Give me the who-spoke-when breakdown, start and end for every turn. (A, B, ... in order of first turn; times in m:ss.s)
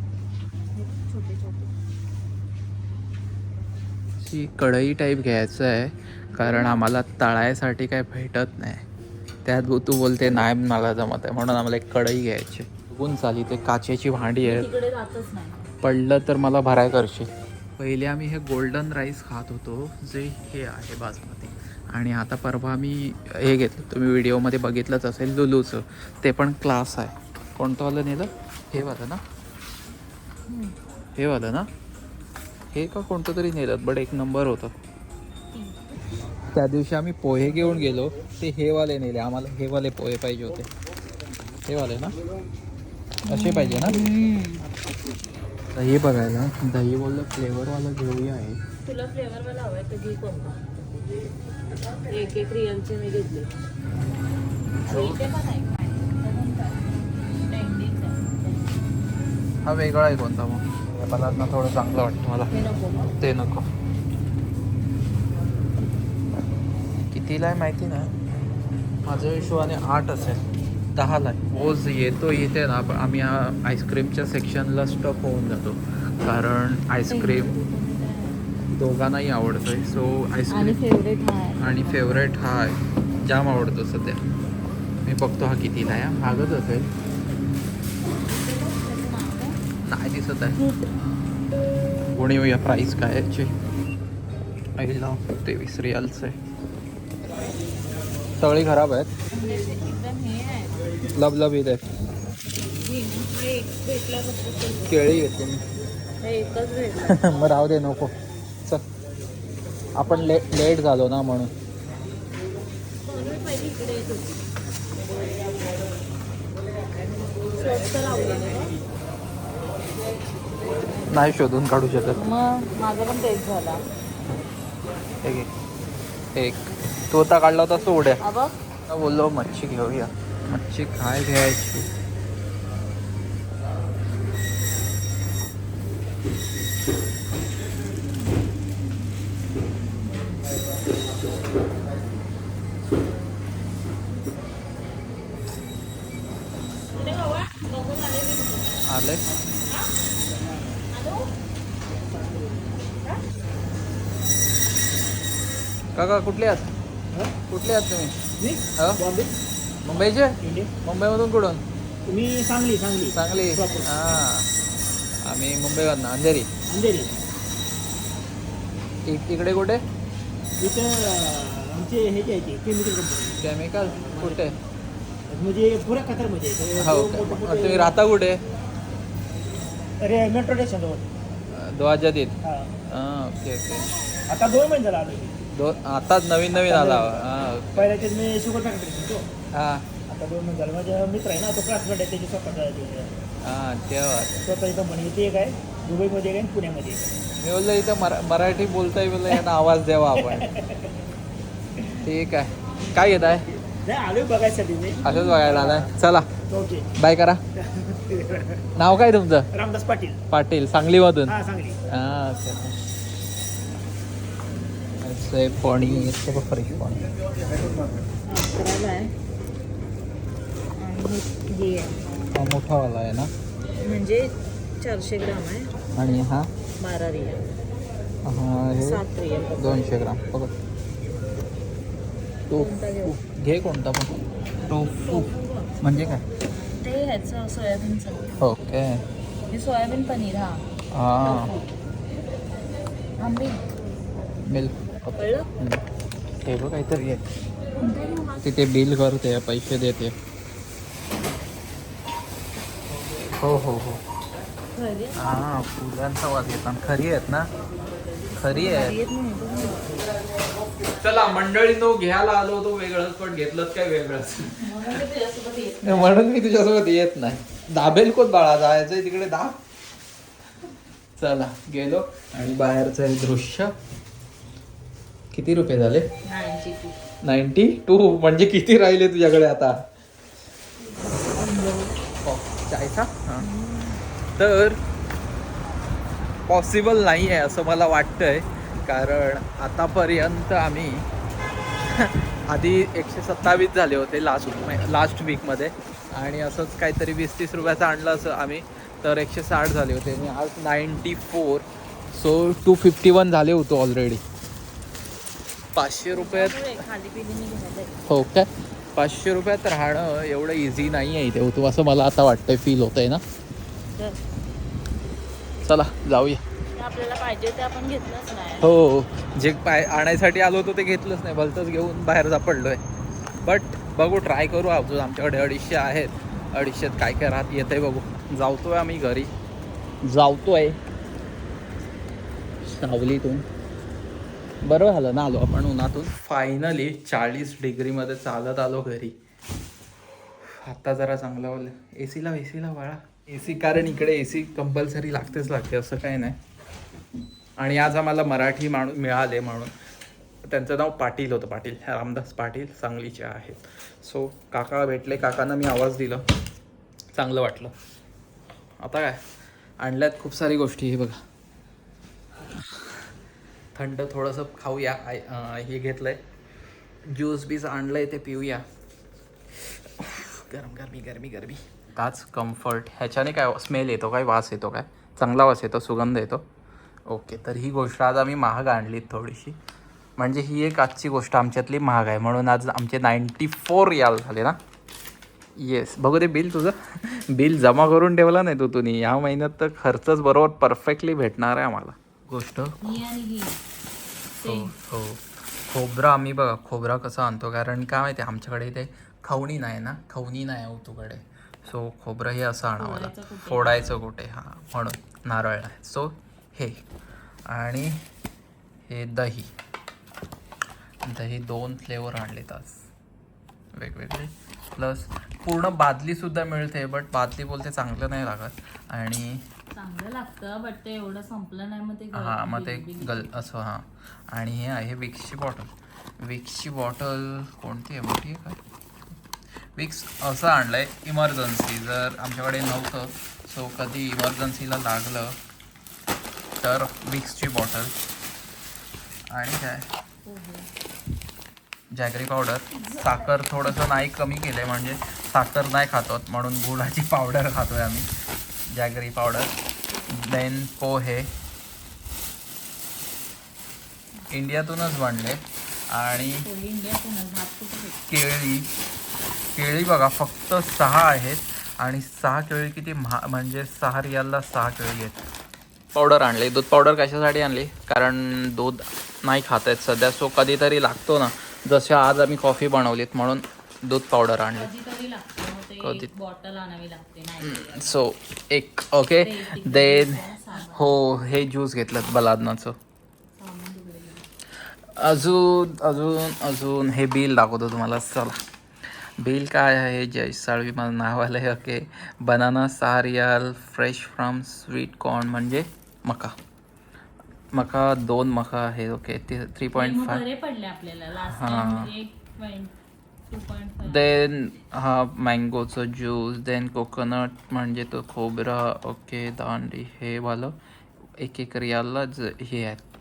0:00.8-0:01.7 A
0:00.9-0:01.5 B
0:04.2-0:08.8 C
0:09.4-0:14.7 C
0:14.4-0:15.7 A
0:15.8-0:29.2 C
0:31.2-0:31.7 C
0:32.7-0:34.7 C
0:35.5-0:35.8 A
0:36.5-0:40.7 C
0:41.7-0:42.2 C
0:43.3-0:44.0 C
0:43.3-0:44.7 A
0:45.8-0:48.6 C
0:48.8-0:50.6 A
0:52.1-0:53.5 A
0:54.8-0:55.4 C
0:54.8-0:58.8 A
0:59.6-1:03.7 C
1:02.5-1:03.1 A
1:07.1-1:08.1 C
1:09.1-1:10.4 C
1:11.0-1:17.6 C
1:17.1-1:18.4 A
1:18.7-1:20.8 C
1:20.5-1:22.0 A
1:21.6-1:24.2 C
1:25.0-1:26.9 C
1:28.3-1:29.6 A
1:29.8-1:30.6 C
1:30.6-1:30.9 A
1:32.1-1:33.5 C
1:34.8-1:36.4 C
1:38.4-1:39.1 C
1:39.3-1:40.9 A
1:41.0-1:41.8 C
1:42.8-1:44.9 A
1:44.9-1:45.6 C
1:46.2-1:47.2 A
1:47.0-1:48.1 C
1:50.0-1:51.5 C
1:50.0-1:50.5 A
1:53.0-1:54.4 A
1:57.5-1:58.8 A
2:01.1-2:02.2 C
2:02.2-2:03.8 A
2:05.2-2:05.5 C
2:06.4-2:08.2 C
2:08.2-2:08.6 A
2:08.9-2:11.9 C
2:20.1-2:20.4 A
2:27.0-2:28.8 A
2:28.8-2:29.2 C
2:30.9-2:31.2 B
2:35.9-2:36.7 C
2:37.5-2:38.2 C
2:38.4-2:39.4 B
2:38.8-2:39.0 C
2:39.8-2:41.6 C
2:40.4-2:40.7 B
2:42.1-2:44.0 B
2:43.1-2:44.5 C
2:45.2-2:46.5 C
2:46.7-2:47.1 B
2:49.1-2:49.8 C
2:50.6-2:53.4 B
2:53.4-2:54.6 C
2:54.1-2:54.5 B
2:55.3-2:58.0 B
2:56.8-2:58.4 C
3:00.0-3:01.1 B
3:01.5-3:02.4 C
3:02.4-3:02.7 B
3:02.9-3:04.0 C
3:04.3-3:05.4 B
3:05.5-3:07.7 C
3:06.7-3:07.2 B
3:07.7-3:09.3 B
3:09.5-3:09.9 C
3:10.1-3:13.1 B
3:13.4-3:14.4 C
3:14.4-3:17.1 B
3:17.4-3:20.5 C
3:20.4-3:20.8 B
3:22.0-3:23.5 C
3:23.8-3:25.9 B
3:25.0-3:26.3 C
3:26.5-3:26.9 B
3:27.0-3:27.4 C
3:27.8-3:28.4 B
3:28.8-3:29.5 C
3:29.5-3:30.2 B
3:30.3-3:31.4 C
3:31.3-3:31.8 B
3:31.9-3:32.8 C
3:35.0-3:37.0 C
3:38.4-3:39.1 A
3:40.8-3:42.0 A
3:42.3-3:43.3 C
3:43.8-3:45.7 A
3:46.0-3:46.5 C
3:46.8-3:47.5 A
3:48.2-3:49.0 C
3:48.8-3:49.8 A
3:49.6-3:50.6 C
3:52.5-3:55.3 C
3:52.5-3:53.2 A
3:55.0-3:55.8 A
3:55.8-3:56.2 C
3:56.8-3:58.4 A
3:58.4-3:59.0 C
3:59.5-4:00.7 A
4:00.9-4:01.5 C
4:03.2-4:03.7 A
4:04.5-4:05.8 C
4:05.2-4:05.5 A
4:06.4-4:07.3 C
4:07.8-4:08.4 A
4:08.4-4:10.1 C
4:13.4-4:14.0 C
4:14.8-4:15.4 A
4:15.2-4:17.5 C
4:18.4-4:19.0 C
4:18.5-4:20.0 A
4:20.9-4:25.0 C
4:24.6-4:26.1 A
4:25.8-4:29.6 C
4:31.2-4:33.7 C
4:35.3-4:36.1 C
4:36.2-4:37.0 A
4:37.2-4:39.8 C
4:41.0-4:42.0 A
4:42.2-4:43.5 C
4:43.4-4:44.1 A
4:44.4-4:44.8 C
4:46.5-4:51.0 C
4:51.9-5:04.2 C
5:05.8-5:06.8 C
5:06.1-5:08.0 A
5:08.1-5:13.2 C
5:14.0-5:14.3 A
5:15.6-5:16.4 C
5:16.8-5:18.7 A
5:18.6-5:22.8 C
5:23.4-5:29.3 C
5:30.0-5:30.8 C
5:32.6-5:33.5 C
5:34.6-5:39.2 C
5:40.4-5:46.4 C
5:47.6-5:49.7 C
5:50.4-5:56.2 C
5:57.2-5:57.7 C
5:58.8-5:59.2 C
5:59.8-6:01.2 C
6:03.7-6:06.2 C
6:07.1-6:08.6 C
6:09.6-6:16.4 C
6:17.1-6:19.6 C
6:20.2-6:24.6 C
6:25.6-6:33.0 C
6:32.8-6:33.6 A
6:34.4-6:34.8 A
6:34.4-6:46.8 C
6:42.8-6:44.0 A
6:47.5-6:48.0 C
6:48.9-6:49.5 C
6:51.0-6:52.9 C
6:53.8-6:59.4 C
6:59.7-7:03.4 A
7:02.1-7:05.7 C
7:06.2-7:08.6 C
7:09.8-7:15.4 C
7:16.6-7:17.9 C
7:19.3-7:19.9 C
7:20.3-7:20.7 A
7:21.9-7:28.1 C
7:28.7-7:29.6 C
7:30.1-7:31.3 C
7:34.3-7:36.5 C
7:36.4-7:38.0 A
7:38.1-7:38.7 C
7:39.6-7:45.2 C
7:46.0-7:54.7 C
7:54.6-7:58.0 A
7:55.8-7:56.1 C
7:57.4-8:02.8 C
7:59.2-8:01.0 A
8:03.4-8:04.3 A
8:04.9-8:08.4 C
8:09.2-8:16.4 C
8:17.5-8:20.2 C
8:19.7-8:22.7 A
8:21.2-8:21.9 C
8:23.3-8:24.2 A
8:23.8-8:30.6 C
8:31.2-8:32.8 C